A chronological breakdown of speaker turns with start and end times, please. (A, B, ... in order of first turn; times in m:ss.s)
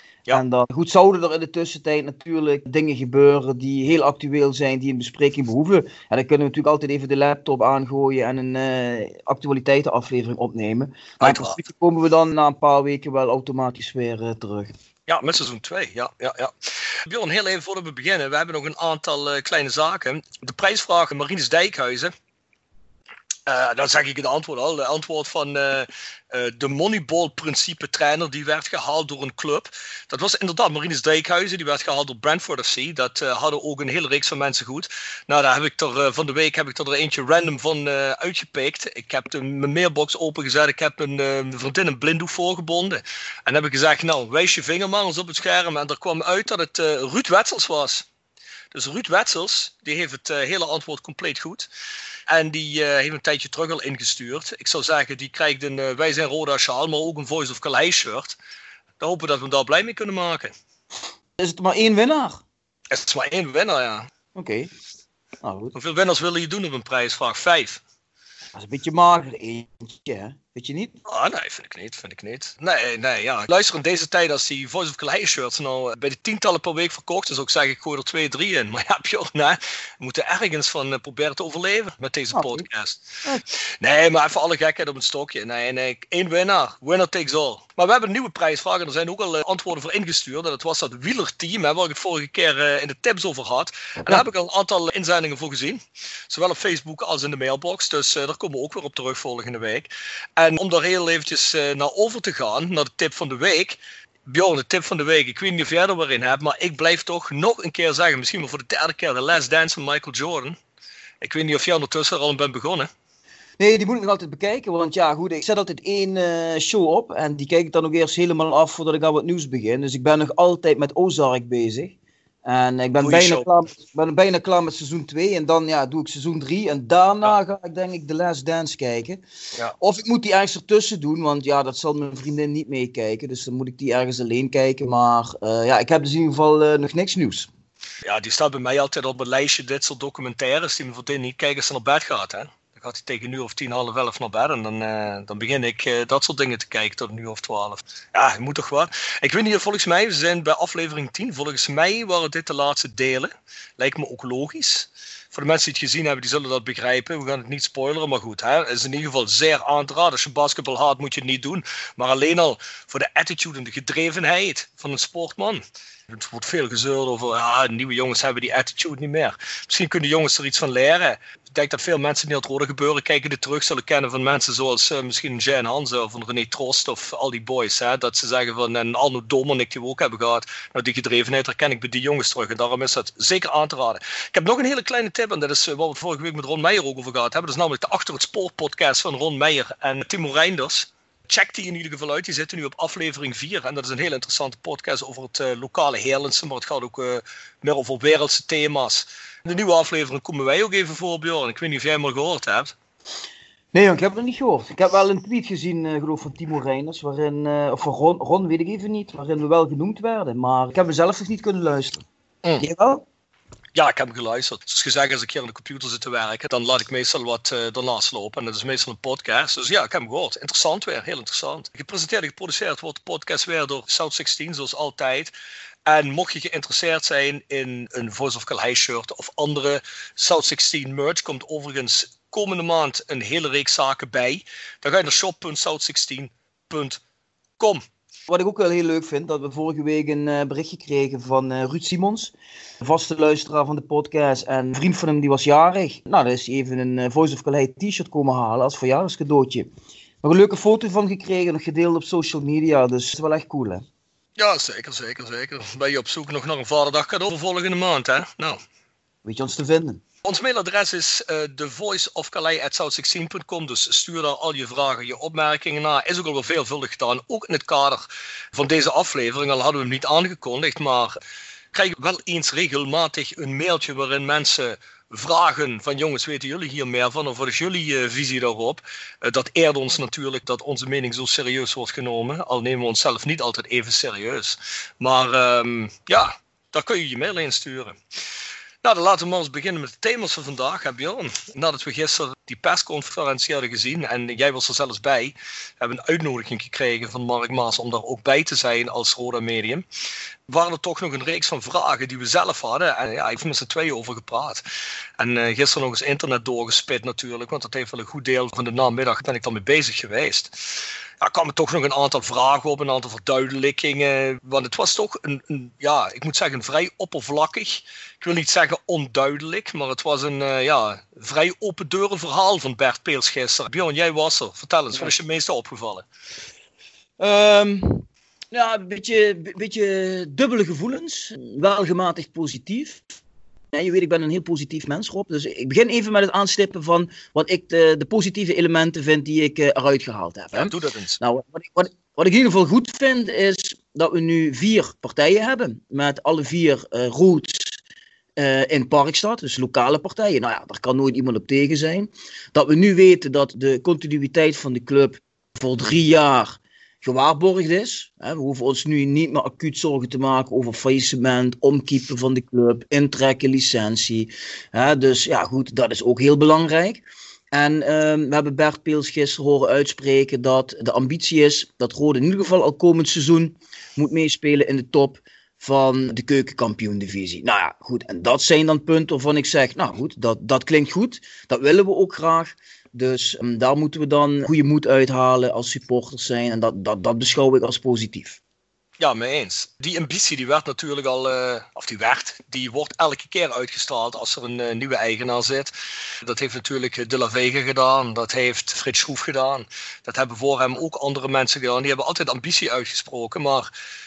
0:00.3-0:14.7 A
0:11.2-0:11.6 B
0:15.1-0:22.1 B
0:23.5-0:48.0 B
0:48.7-0:51.7 B
0:52.3-0:58.4 B
0:59.0-1:00.5 B
1:01.4-1:02.4 A
1:02.9-1:04.1 B
1:04.3-1:04.7 A
1:05.4-1:05.7 A
1:05.7-1:07.8 B
1:08.5-1:11.0 A
1:11.1-1:50.6 B
1:22.3-1:22.6 A
1:51.2-1:52.9 B
1:53.6-2:09.2 A
2:03.0-2:03.5 B
2:09.8-2:17.5 A
2:18.0-3:22.7 B
3:23.7-3:32.0 A
3:32.6-3:33.0 A
3:33.7-3:45.3 B
3:45.8-3:57.0 B
3:57.6-3:57.8 B
3:58.3-4:09.7 A
4:10.2-4:13.8 A
4:14.4-4:18.6 B
4:19.2-4:20.0 A
4:20.2-4:31.2 B
4:31.7-4:48.0 B
4:48.8-4:59.8 B
5:00.5-5:04.6 B
5:05.2-5:26.0 B
5:27.2-5:33.0 A
5:33.7-5:47.8 A
5:40.5-5:41.2 B
5:48.4-6:28.4 A
6:29.0-6:35.7 B
6:36.2-6:43.7 B